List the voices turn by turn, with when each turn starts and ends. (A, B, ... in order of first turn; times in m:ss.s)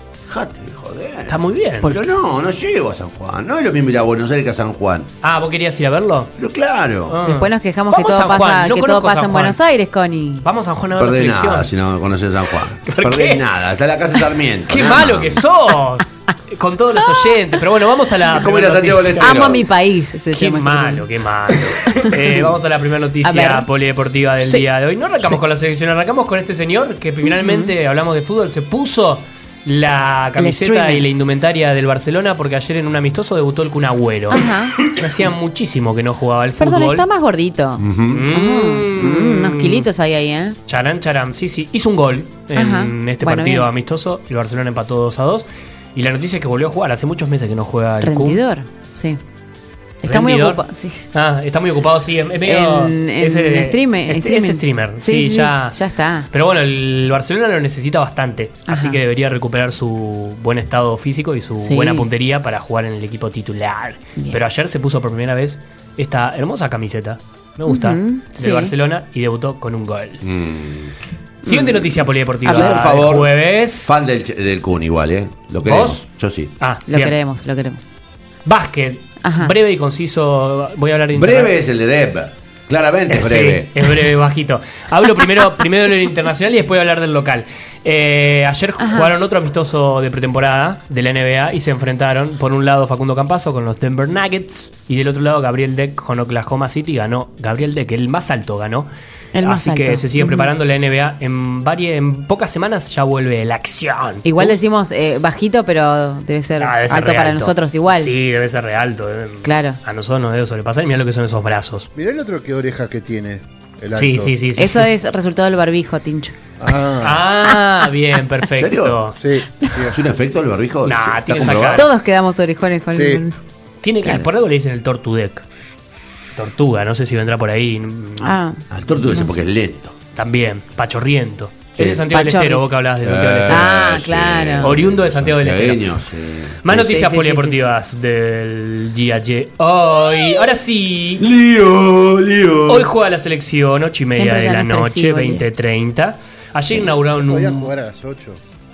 0:00.3-0:05.1 A
0:01.3-0:02.0 B
0:05.2-0:06.3 B
0:06.4-0:07.2 A
0:07.1-0:09.6 B
0:07.2-0:10.5 C
0:10.4-0:11.7 B
0:10.9-0:15.4 A
0:12.8-0:13.4 B
0:14.7-0:19.4 B
0:18.3-0:19.6 A
0:19.2-0:22.5 C
0:20.3-0:37.0 B
0:23.2-0:23.7 C
0:27.2-0:27.7 C
0:30.4-0:31.0 C
0:34.3-0:34.9 C
0:36.6-0:40.6 C
0:37.8-0:38.2 A
0:38.1-0:39.9 B
0:40.7-0:48.4 B
0:42.6-0:43.7 C
0:48.0-0:49.2 C
0:50.0-0:51.1 C
0:50.0-0:50.6 B
0:51.1-0:55.8 B
0:52.4-0:56.3 C
0:56.3-1:10.2 B
0:58.7-0:59.0 C
1:01.6-1:02.1 C
1:07.7-1:08.7 C
1:10.2-1:11.0 A
1:11.4-1:11.9 C
1:11.4-1:13.9 B
1:12.4-1:16.5 A
1:12.5-1:12.8 C
1:15.6-1:16.0 B
1:16.6-1:17.2 B
1:16.9-1:17.8 C
1:18.5-1:21.5 B
1:19.2-1:19.5 C
1:21.1-1:24.1 A
1:23.1-1:38.9 B
1:28.8-1:29.1 C
1:39.4-1:40.5 C
1:39.4-1:44.6 B
1:44.2-1:48.1 C
1:46.6-1:51.9 B
1:49.4-1:49.8 C
1:52.0-1:54.4 D
1:54.0-1:54.9 B
1:54.5-1:56.4 C
1:56.6-1:57.3 D
1:57.0-1:59.2 B
1:58.5-1:59.0 A
1:59.2-2:00.0 D
1:59.9-2:01.9 A
2:00.8-2:01.9 B
2:01.4-2:03.4 C
2:02.9-2:03.2 D
2:03.8-2:05.4 B
2:06.4-2:08.4 B
2:08.2-2:09.4 C
2:08.7-2:09.9 A
2:10.1-2:13.7 B
2:11.8-2:12.0 A
2:12.1-2:12.8 C
2:13.0-2:16.8 A
2:13.5-2:14.8 C
2:14.6-2:15.9 B
2:16.6-2:21.3 B
2:16.7-2:17.7 C
2:21.2-2:22.9 A
2:22.7-2:27.7 B
2:24.1-2:25.4 C
2:27.2-2:28.4 D